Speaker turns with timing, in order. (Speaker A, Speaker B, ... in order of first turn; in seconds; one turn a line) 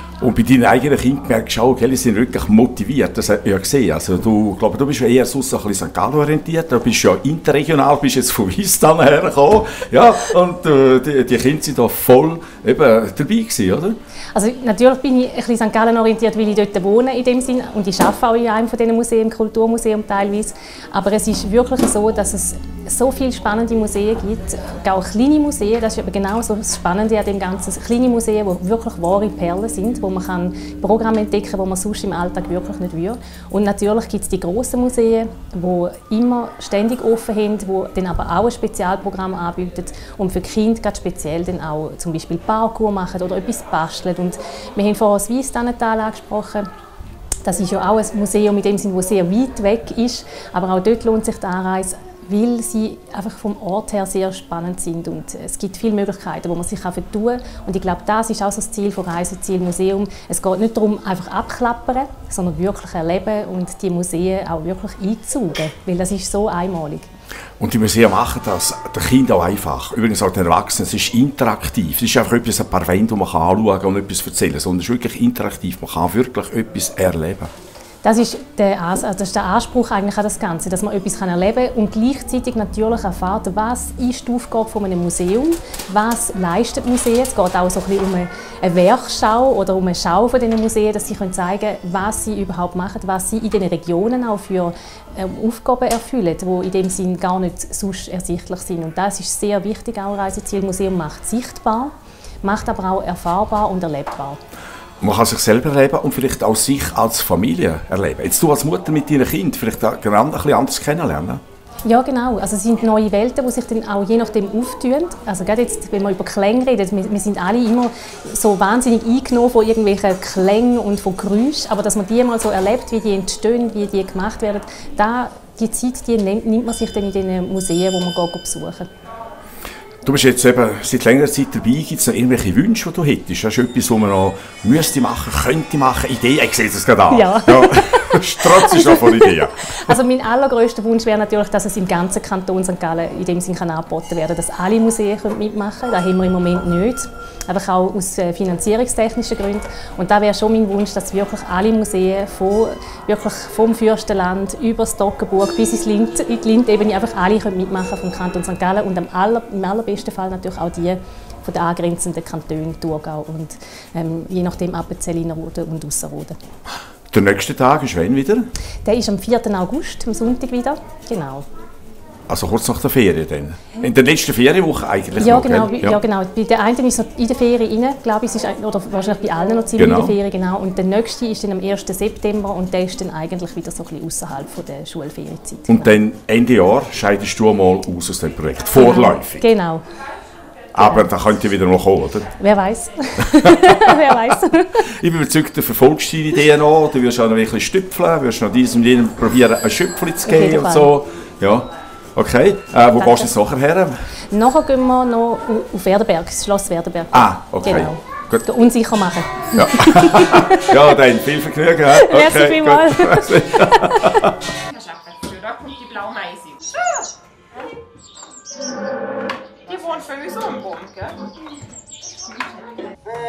Speaker A: 0.2-14.0
Speaker B: 14.3-46.6
Speaker B: 47.4-67.1
Speaker A: 67.6-77.5
Speaker B: 78.0-101.9
Speaker B: 102.4-104.4
Speaker A: 105.0-111.4
Speaker B: 111.8-128.9
Speaker A: 130.0-139.9
Speaker B: 137.1-166.3
Speaker A: 167.1-168.5
Speaker B: 168.8-171.4
Speaker A: 172.3-176.0
Speaker B: 175.2-185.9
Speaker A: 179.8-180.2
Speaker A: 185.7-189.4
Speaker B: 188.7-189.8
Speaker A: 190.7-192.3
Speaker B: 190.8-191.1
Speaker B: 192.4-194.9
Speaker A: 193.7-194.0
Speaker A: 194.9-204.0
Speaker B: 200.2-200.9
Speaker B: 202.9-203.3
Speaker B: 204.3-210.9
Speaker A: 207.1-208.4
Speaker A: 209.5-214.3
Speaker B: 211.9-213.9
Speaker C: 215.2-216.9
Speaker C: 219.7-221.1